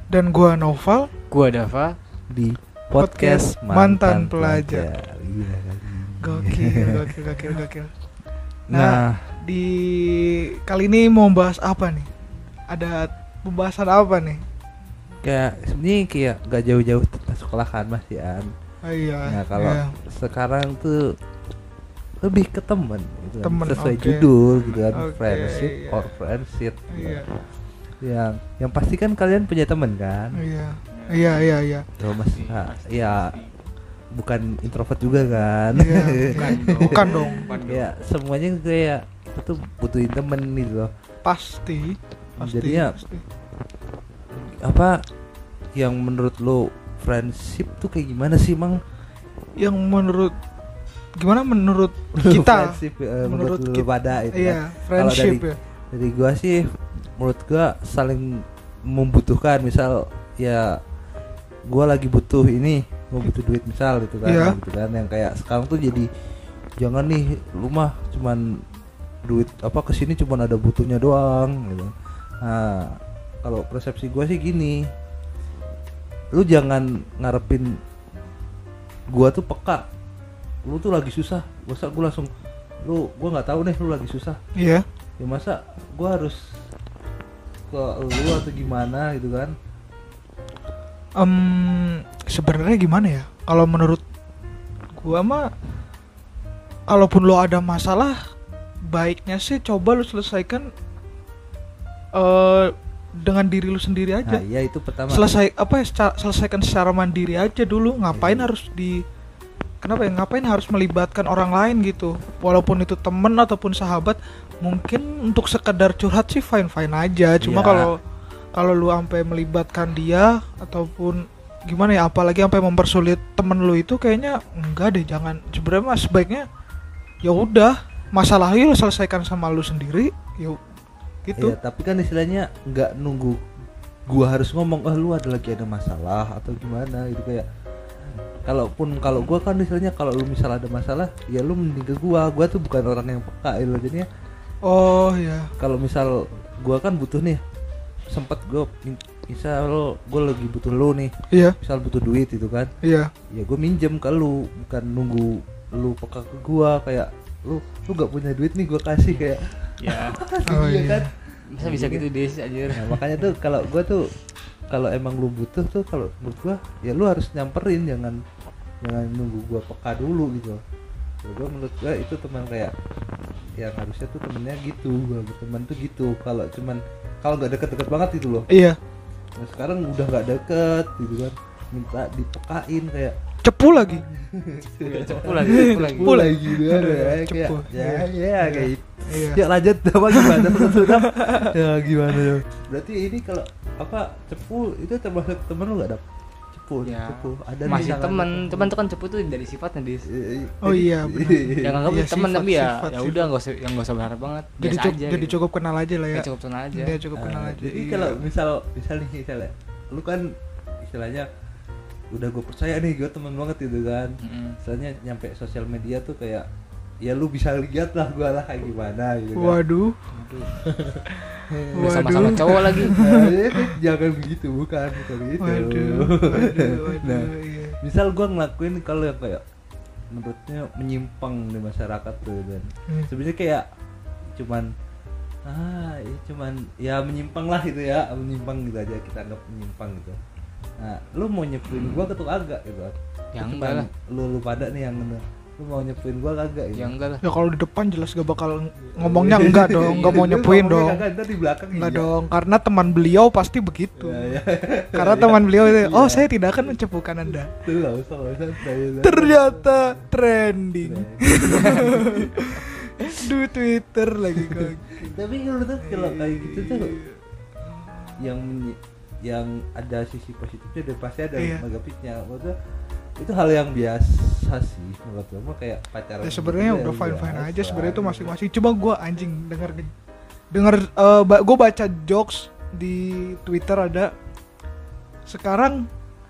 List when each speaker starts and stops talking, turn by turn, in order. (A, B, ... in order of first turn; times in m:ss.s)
0:00.1-0:01.1 A
0:01.3-0:02.0 B
0:02.3-0:07.6 C
0:03.0-0:04.9 A
0:06.2-0:07.9 A
0:08.7-0:09.3 C
0:08.7-0:12.1 A
0:12.7-0:14.4 A
0:15.2-0:18.5 C
0:18.8-0:20.0 A
0:19.2-0:21.1 C
0:22.2-0:27.3 C
0:23.4-0:24.3 A
0:24.6-0:24.9 B
0:24.9-0:26.1 A
0:26.9-0:27.3 A
0:28.0-0:30.4 C
0:30.3-0:31.9 A
0:30.9-0:31.5 B
0:32.0-0:33.4 C
0:32.3-0:33.5 B
0:34.1-0:40.9 C
0:35.7-0:37.5 A
0:36.3-0:37.9 B
0:41.2-0:43.2 A
0:42.4-0:43.0 C
0:44.3-0:45.0 C
0:45.7-0:48.8 C
0:49.6-0:50.3 A
0:51.2-0:55.6 A
0:52.2-1:00.8 C
1:01.7-1:06.1 C
1:04.2-1:04.6 A
1:06.8-1:08.4 C
1:09.2-1:14.8 C
1:16.3-1:17.8 C
1:19.1-1:19.8 C
1:20.6-1:22.3 C
1:22.8-1:24.4 C
1:24.6-1:24.8 A
1:25.2-1:26.4 C
1:27.7-1:29.5 C
1:31.2-1:34.0 A
1:35.0-1:35.5 A
1:36.9-1:38.2 A
1:38.9-1:40.7 A
1:42.1-1:44.4 A
1:44.2-1:45.3 C
1:45.1-1:49.0 A
1:48.1-1:48.5 C
1:49.8-1:58.0 A
1:57.4-1:57.9 C
1:58.5-2:06.4 A
2:07.2-2:10.6 A
2:11.2-2:11.6 A
2:11.4-2:13.4 C
2:14.1-2:17.5 C
2:18.4-2:24.1 C
2:24.6-2:25.5 A
2:25.6-2:27.4 C
2:28.1-2:32.7 C
2:31.3-2:31.6 A
2:32.8-2:33.1 A
2:33.3-2:42.0 C
2:39.8-2:40.2 B
2:40.4-2:41.1 A
2:41.5-2:43.0 B
2:42.7-2:44.1 C
2:44.7-2:48.2 C
2:48.8-2:50.6 C
2:51.2-2:52.7 C
2:53.6-2:58.5 C
2:58.5-2:58.8 A
2:59.4-3:03.2 C
3:03.4-3:04.0 A
3:03.8-3:18.7 C
3:04.8-3:06.2 B
3:05.4-3:09.4 A
3:10.1-3:11.5 A
3:16.8-3:20.1 B
3:17.7-3:17.9 A
3:20.0-3:21.8 C
3:20.6-3:23.3 A
3:21.6-3:25.4 B
3:24.6-3:28.2 A
3:26.1-3:27.0 B
3:27.1-3:31.3 C
3:32.1-3:36.5 C
3:34.2-3:34.6 B
3:37.0-3:39.6 C
3:39.3-3:40.0 A
3:40.1-3:40.6 B
3:40.6-3:49.4 C
3:41.0-3:43.8 A
3:41.7-3:42.9 B
3:45.4-3:47.8 A
3:50.1-3:53.6 C
3:54.4-3:54.7 C
3:55.4-4:00.2 C
4:00.8-4:06.9 C
4:03.3-4:03.9 B
4:06.7-4:07.2 B
4:07.2-4:11.0 A
4:08.9-4:12.1 C
4:09.8-4:10.2 B
4:11.7-4:14.4 A
4:14.0-4:16.3 C
4:14.9-4:17.5 A
4:17.5-4:20.0 C
4:19.0-4:25.2 A
4:20.8-4:22.6 C
4:24.3-4:26.9 C
4:25.8-4:28.2 A
4:28.2-4:32.6 C
4:31.4-4:31.6 A
4:33.2-4:38.4 C
4:36.2-4:39.9 A
4:40.5-4:44.1 A
4:45.3-4:45.9 A